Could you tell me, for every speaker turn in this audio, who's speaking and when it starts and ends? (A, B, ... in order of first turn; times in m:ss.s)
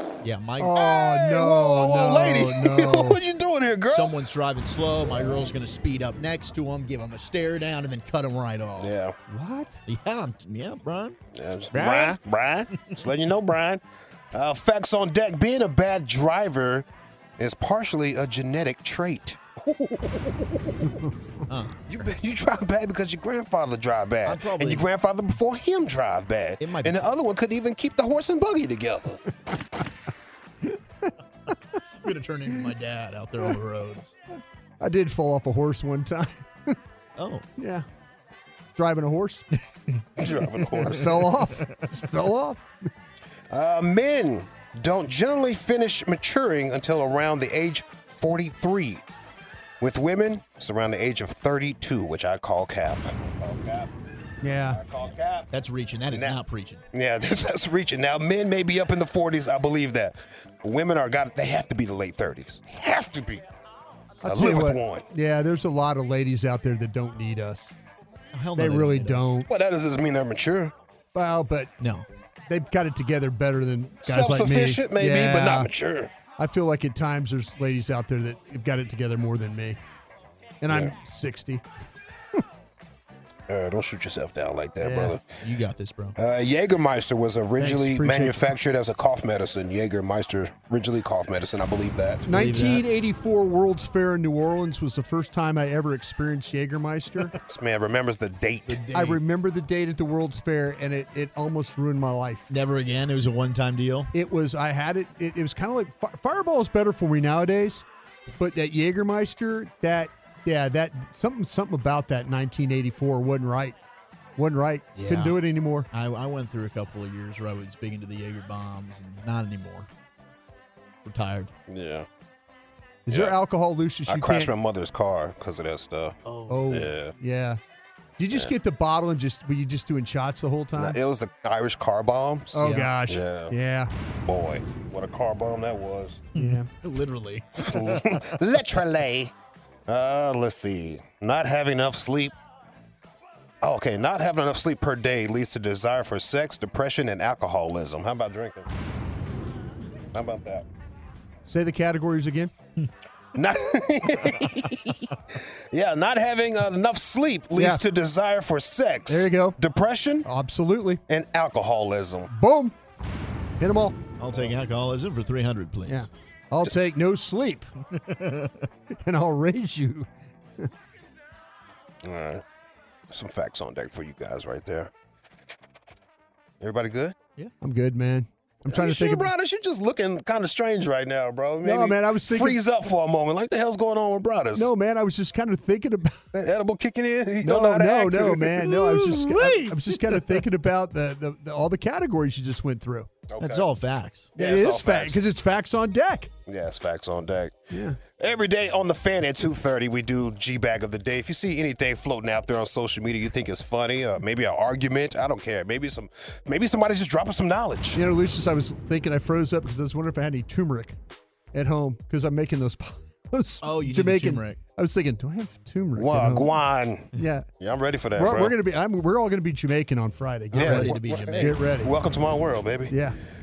0:00.2-0:00.8 A
0:00.6-0:03.2 B
0:00.7-0:04.1 C
0:03.9-0:08.9 A
0:08.8-0:09.1 C
0:09.3-0:09.8 B
0:09.8-0:11.2 A
0:11.3-0:13.8 C
0:11.7-0:12.2 A
0:12.7-0:13.0 A
0:14.3-0:16.8 C
0:17.4-0:20.6 C
0:20.8-0:21.1 B
0:21.5-0:22.1 A
0:21.9-0:29.2 C
0:24.2-0:24.9 A
0:26.6-0:27.1 A
0:30.6-0:31.1 B
0:32.0-0:34.1 A
0:34.8-0:36.8 B
0:37.2-0:37.4 A
0:37.6-0:37.8 B
0:38.8-0:39.4 B
0:40.2-0:41.0 C
0:40.3-0:41.7 A
0:40.8-0:42.6 B
0:43.5-0:49.0 C
0:49.8-0:53.9 C
0:54.4-0:54.8 B
0:54.7-0:55.5 C
0:55.0-0:56.8 A
0:56.1-0:56.4 C
0:56.9-1:03.4 C
1:04.2-1:07.7 B
1:04.2-1:05.0 C
1:08.3-1:09.4 A
1:08.6-1:09.5 B
1:09.5-1:10.7 C
1:11.1-1:11.7 B
1:11.8-1:12.1 A
1:12.5-1:15.7 B
1:14.0-1:16.1 C
1:16.4-1:19.8 B
1:20.6-1:21.6 B
1:20.7-1:20.9 C
1:23.5-1:25.4 C
1:24.8-1:25.2 B
1:25.4-1:26.2 A
1:26.2-1:32.3 C
1:27.6-1:28.4 B
1:32.3-1:37.3 B
1:32.3-1:32.8 A
1:37.4-1:38.8 C
1:38.6-1:39.2 A
1:38.9-1:42.5 B
1:42.5-1:44.1 A
1:44.1-1:47.8 B
1:48.4-1:53.8 B
1:54.4-1:55.9 B
1:54.9-1:59.9 A
2:01.0-2:01.5 A
2:01.7-2:02.1 C
2:03.1-2:04.5 B
2:03.1-2:03.4 C
2:04.1-2:06.2 C
2:06.2-2:06.7 A
2:06.5-2:07.6 B
2:06.7-2:07.1 C
2:08.2-2:11.0 B
2:10.8-2:13.5 C
2:12.5-2:13.9 B
2:12.6-2:12.9 A
2:14.2-2:16.2 C
2:16.3-2:18.3 A
2:16.4-2:16.7 B
2:17.6-2:19.3 C
2:19.9-2:22.3 C
2:23.6-2:28.6 C
2:30.1-2:30.6 C
2:31.4-2:32.5 B
2:33.3-2:35.1 C
2:35.7-2:40.3 C
2:37.5-2:37.8 B
2:39.1-2:39.6 B
2:40.2-2:41.0 B
2:41.1-2:42.3 C
2:42.3-2:42.7 B
2:43.6-2:44.0 B
2:44.2-2:46.1 A
2:45.9-2:47.7 B
2:47.9-2:48.7 A
2:49.0-2:50.1 B
2:52.0-2:52.4 C
2:53.1-2:54.9 C
2:56.6-2:57.1 C
2:57.6-2:59.3 B
2:58.7-3:04.7 C
3:01.6-3:02.6 B
3:04.5-3:06.2 B
3:06.3-3:08.6 C
3:07.4-3:13.1 B
3:08.5-3:10.4 A
3:13.3-3:13.7 C
3:13.4-3:14.3 A
3:14.4-3:15.2 C
3:14.4-3:16.3 B
3:16.5-3:17.5 C
3:17.7-3:18.0 B
3:18.1-3:28.0 C
3:27.9-3:31.0 B
3:31.5-3:36.5 B
3:33.6-3:34.6 A
3:36.0-3:38.5 C
3:37.1-3:37.5 B
3:38.1-3:41.9 B
3:40.5-3:42.9 C
3:40.5-3:41.6 A
3:42.9-3:43.1 B